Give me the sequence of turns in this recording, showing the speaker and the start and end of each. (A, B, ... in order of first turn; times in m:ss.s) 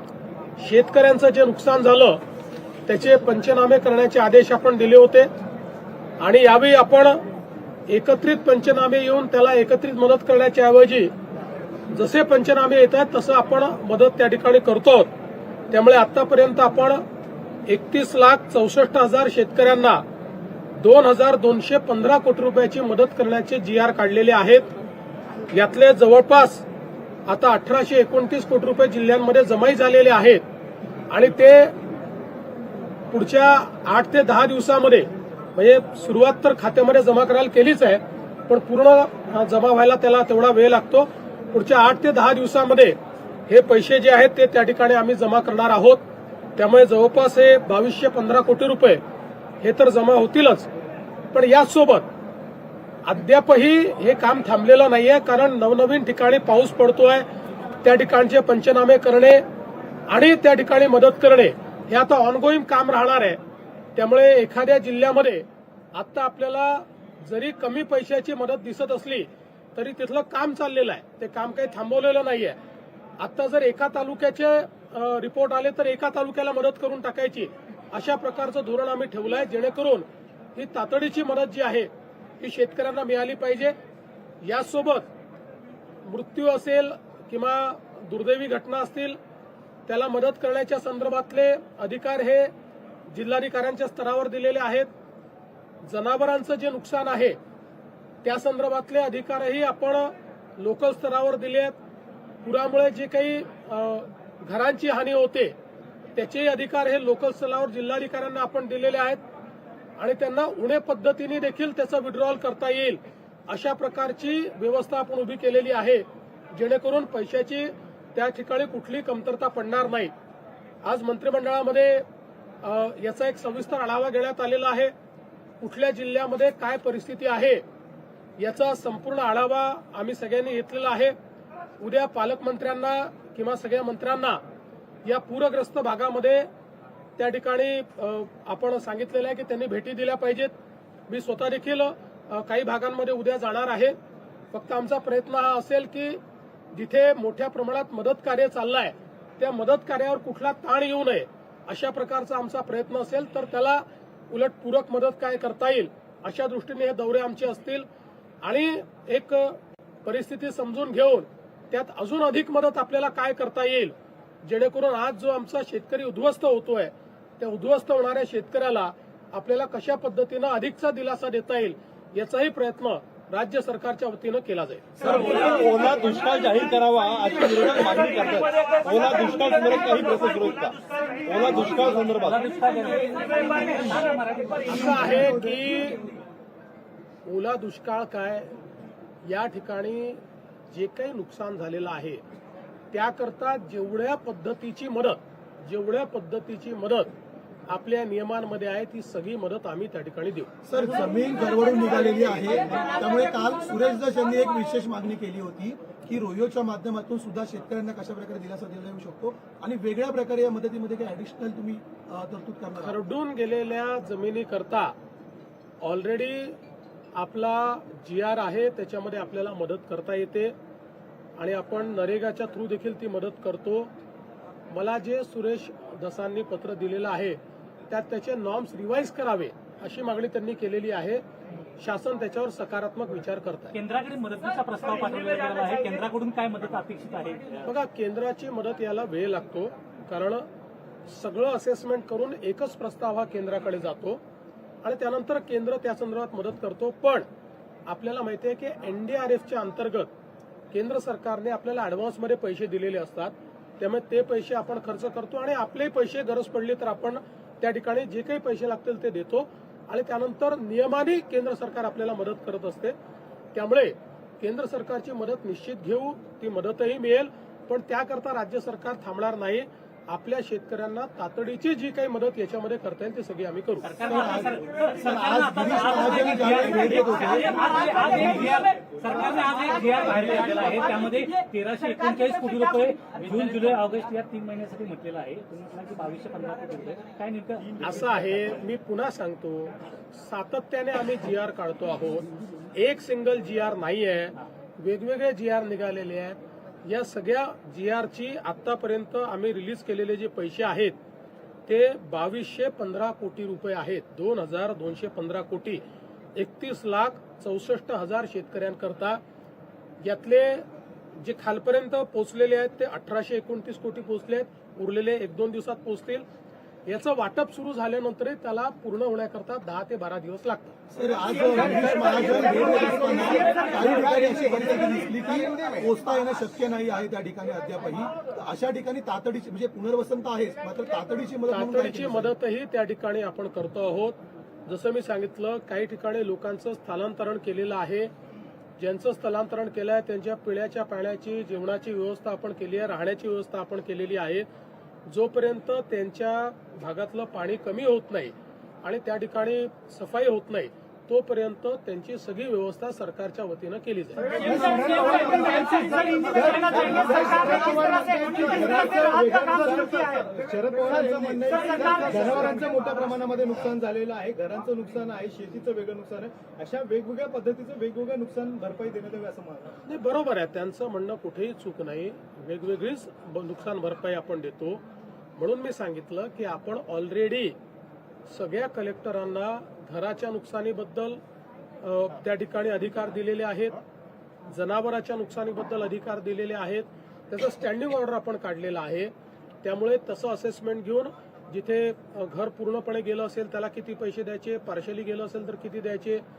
0:00.6-0:02.2 A
0:02.9-0:05.3 A
0:06.2-0:07.2 A
0:07.9-0:11.1 A
0:11.9-0:15.1 A
0:15.7-0:17.0 A
0:17.7-0:20.0 A
0:20.8-0:24.6 A
0:25.5-0:26.6 A
0:27.3-0:30.4 A
0:31.1-0:31.7 A
0:33.1-0:43.0 A
0:43.5-0:46.0 A
0:46.6-0:49.0 A
0:49.6-0:50.7 A
0:51.3-0:52.1 A
0:53.0-0:57.2 A
0:57.8-0:59.4 A
1:00.1-1:03.4 A
1:03.9-1:12.6 A
1:13.2-1:21.9 A
1:22.4-1:23.7 A
1:24.4-1:25.1 A
1:26.0-1:29.2 A
1:29.9-1:32.5 A
1:33.1-1:34.9 A
1:35.8-1:37.4 A
1:38.2-1:41.8 A
1:42.4-1:45.5 A
1:46.2-1:49.2 A
1:50.0-2:00.1 A
2:00.8-2:02.0 A
2:02.6-2:04.9 A
2:05.6-2:07.6 A
2:08.4-2:11.2 A
2:11.8-2:14.4 A
2:15.0-2:16.5 A
2:17.2-2:20.5 A
2:21.1-2:24.0 A
2:24.5-2:26.2 A
2:26.7-2:37.8 A
2:38.4-2:54.8 A
2:55.0-3:02.3 B
3:01.7-3:05.0 C
3:04.7-3:06.0 A
3:04.9-3:05.6 D
3:07.2-3:08.6 A
3:09.2-3:12.2 A
3:12.9-3:17.1 A
3:17.7-3:20.5 A
3:20.6-3:33.0 D
3:32.8-3:34.9 A
3:35.8-3:36.6 A
3:37.2-3:40.5 A
3:41.4-3:43.9 A
3:44.7-3:47.4 A
3:47.9-3:51.2 A
3:51.8-3:53.8 A
3:53.7-3:57.6 C
3:57.6-4:00.4 A
4:01.0-4:04.2 A
4:04.8-4:07.2 A
4:07.9-4:10.1 A
4:10.7-4:22.9 A
4:23.5-4:33.9 A
4:33.8-4:47.9 C
4:34.0-4:37.6 D
4:47.8-5:01.0 A
5:01.6-5:05.8 A
5:06.4-5:09.2 A
5:10.0-5:10.6 A
5:11.2-5:16.2 A
5:16.8-5:20.7 A
5:20.9-5:32.3 D
5:31.5-5:38.1 A
5:38.8-5:44.4 A
5:45.1-5:54.4 A
5:54.4-6:09.7 E
6:09.8-6:14.8 A
6:15.4-6:17.5 A
6:18.3-6:21.2 A
6:21.8-6:23.8 A
6:24.5-6:29.1 A
6:29.6-6:36.2 A